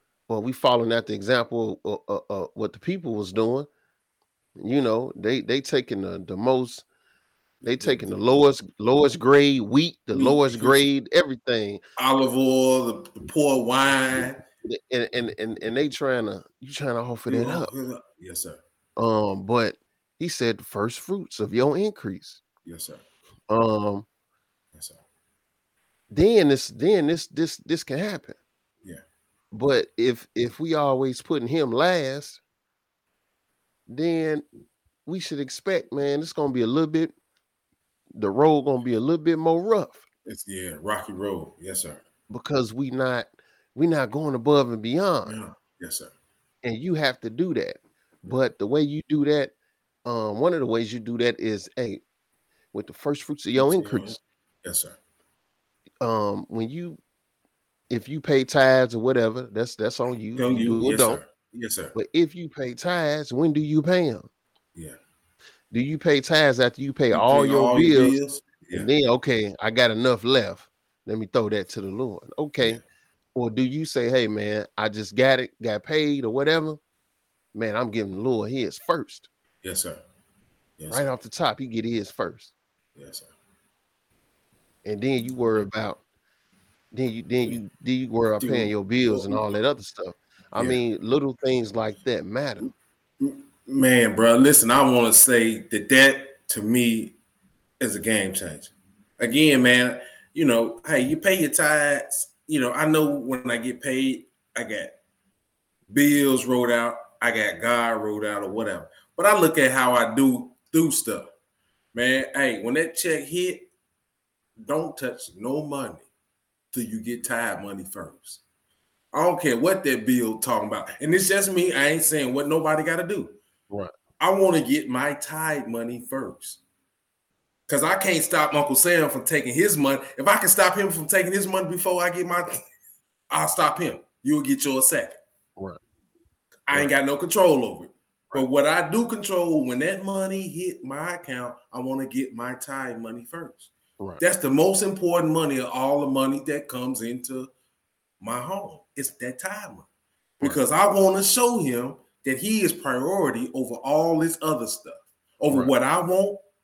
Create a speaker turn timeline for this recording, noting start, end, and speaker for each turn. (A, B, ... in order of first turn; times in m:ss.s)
0:00.3-0:03.7 A
0:04.6-0:06.9 A
0:07.6-0:08.2 B
0:07.6-0:11.8 A
0:10.1-0:10.9 B
0:12.0-0:14.4 B
0:14.6-0:17.7 A
0:17.3-0:18.6 B
0:19.0-0:22.4 A
0:22.6-0:23.0 B
0:23.5-0:24.1 A
0:24.8-0:25.0 B
0:26.1-0:28.4 A
0:29.5-0:32.4 A
0:33.9-0:34.4 A
0:35.1-0:37.1 A
0:38.2-0:40.0 A
0:40.3-0:42.0 B
0:42.3-0:45.4 A
0:45.2-0:46.1 B
0:46.6-0:49.5 A
0:50.1-0:52.0 A
0:52.7-0:54.2 A
0:53.6-0:55.0 B
0:56.0-0:57.0 A
0:57.9-1:01.2 A
1:00.4-1:01.9 B
1:01.9-1:04.3 A
1:05.7-1:08.2 A
1:07.1-1:08.9 B
1:08.7-1:12.8 A
1:13.4-1:16.8 A
1:17.5-1:19.3 A
1:19.6-1:20.0 B
1:20.8-1:21.1 B
1:20.9-1:22.5 A
1:23.0-1:23.3 B
1:24.8-1:26.0 A
1:26.9-1:32.7 A
1:28.4-1:29.5 B
1:30.6-1:30.8 B
1:33.2-1:37.2 B
1:37.8-1:45.0 B
1:45.9-1:51.3 B
1:51.9-1:53.7 B
1:54.6-1:56.1 B
1:56.7-1:58.4 B
1:59.1-2:03.4 B
2:04.2-2:06.6 B
2:07.7-2:12.6 B
2:13.3-2:15.2 B
2:16.7-2:27.5 B
2:28.2-2:29.9 B
2:30.4-2:36.4 B